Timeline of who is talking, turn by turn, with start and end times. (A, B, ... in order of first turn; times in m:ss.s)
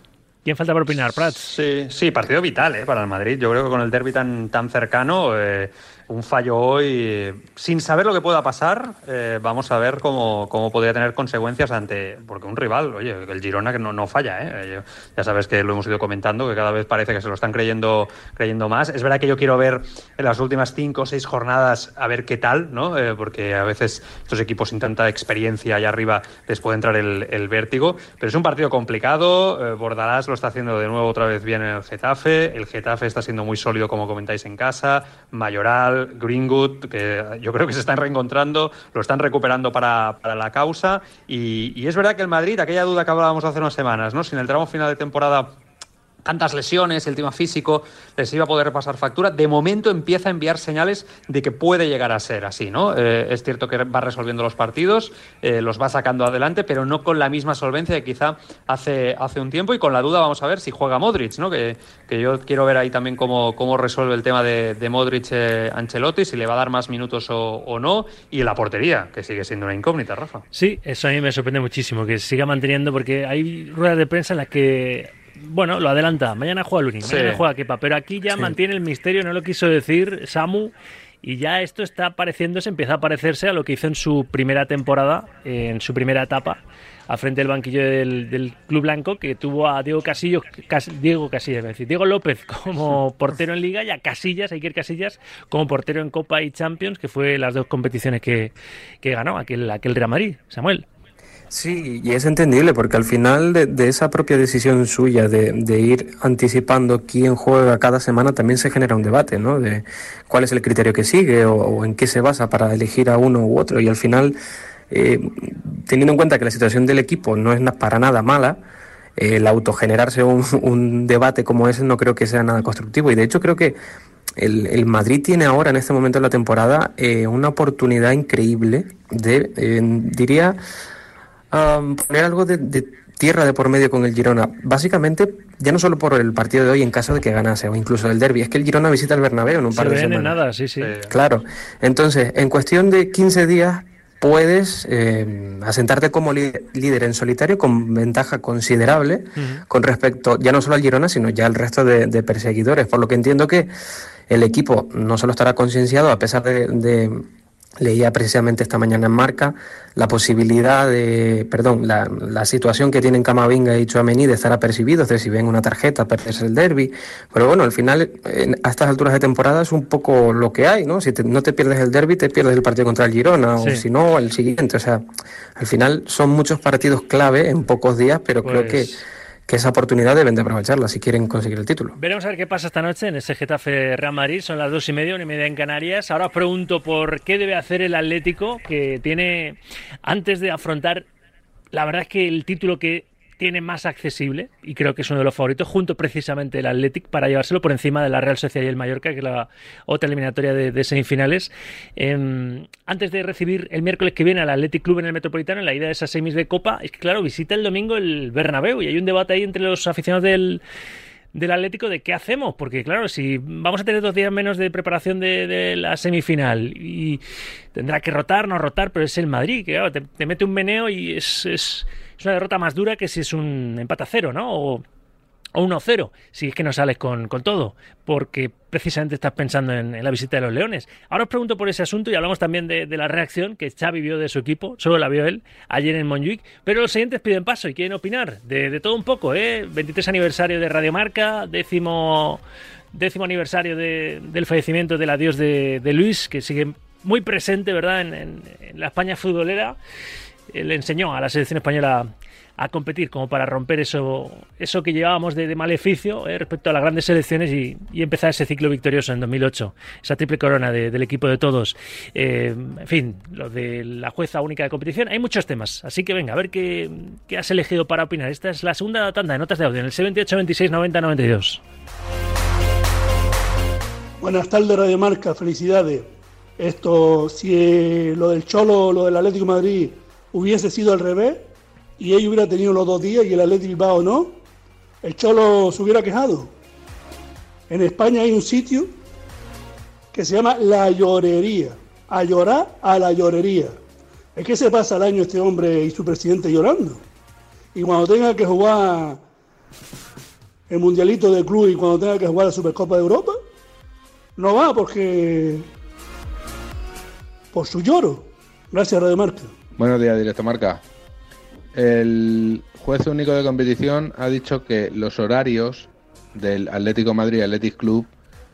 0:00.4-0:01.5 A
0:01.4-0:45.6 B
0:46.2-1:10.4 B
1:10.5-1:40.8 A
1:17.0-1:17.4 B
1:41.5-1:54.4 C
1:54.9-1:58.6 C
1:59.2-2:03.8 C
2:04.4-2:10.6 C
2:11.5-2:20.4 C
2:19.7-2:20.9 A
2:20.8-2:21.1 B
2:21.1-2:33.7 C
2:29.4-2:29.6 A
2:34.3-2:37.3 C
2:37.8-2:55.0 C
2:53.6-2:53.8 A
2:55.6-3:02.0 C
2:58.4-2:59.0 A
3:02.0-3:11.1 A
3:11.7-3:30.6 A
3:31.3-3:37.2 A
3:37.7-3:44.8 A
3:45.6-4:02.4 A
4:02.9-4:09.8 A
4:10.5-4:31.6 A
4:34.2-4:41.5 D
4:42.0-4:44.4 D
4:45.0-4:46.5 D
4:47.7-4:48.9 D
4:50.1-4:53.8 D
4:54.4-4:57.0 D
4:57.8-4:59.2 D
5:00.7-5:03.4 D
5:04.4-5:05.7 D
5:07.5-5:09.5 D
5:09.8-5:10.8 E
5:11.7-5:18.1 E